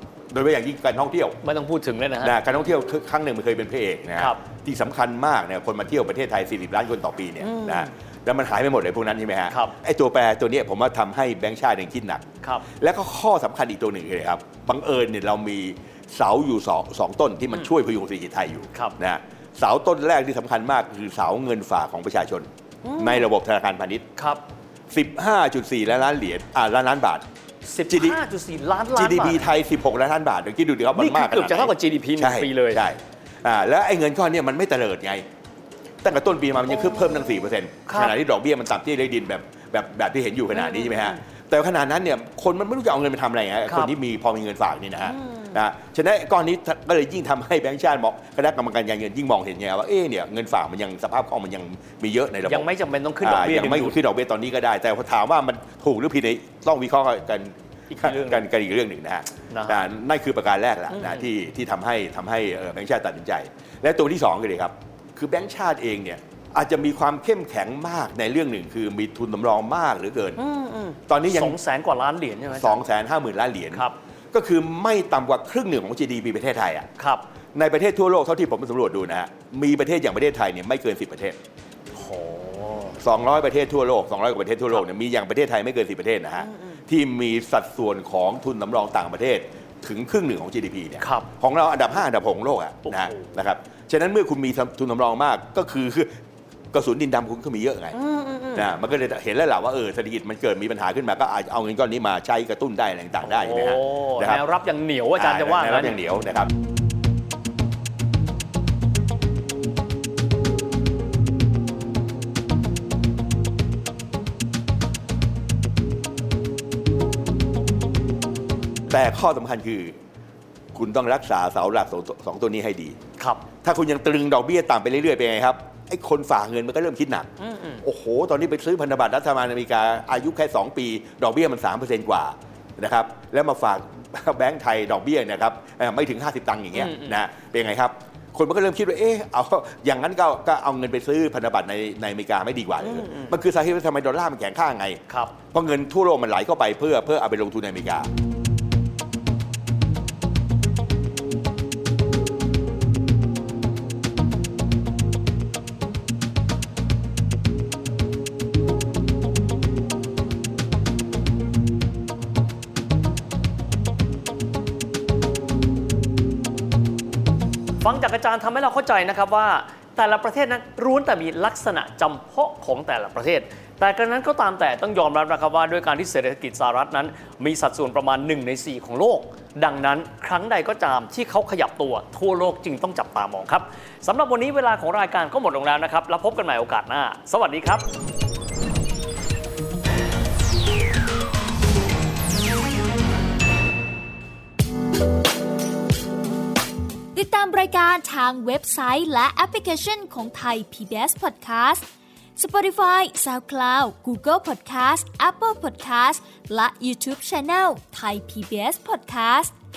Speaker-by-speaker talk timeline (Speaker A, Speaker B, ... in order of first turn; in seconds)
Speaker A: 0.3-1.4, 2.2-12.2, 12.8-22.5, 23.0-24.0, 24.9-27.2, 27.9-28.2, 28.9-35.2, 36.0-52.7, 53.2-70.4, 71.1-71.6, 72.5-76.9, 77.5-81.4, 83.0-96.1, 96.7-98.0, 98.5-104.4, 105.2-106.5, 118.9-120.0, 120.7-123.0, 123.6-127.3, 127.8-148.1
Speaker B: 1.4-2.4, 7.4-7.9, 9.5-9.7, 22.8-23.3, 24.1-24.4, 27.6-29.5, 30.9-32.8, 37.9-38.1, 40.5-41.1, 43.7-43.9, 45.1-45.5, 52.5-54.0, 57.9-58.4, 59.5-59.8, 60.9-61.2, 70.4-72.8, 77.0-77.2, 81.9-83.0, 86.5-86.7, 91.0-91.3, 92.8-93.3, 97.9-98.7, 103.2-106.0, 123.2-123.4, 127.4-127.8, 136.7-137.2, 142.8-143.3, 145.1-145.3, 167.8-187.8
Speaker C: 197.1-201.8, 202.3-209.5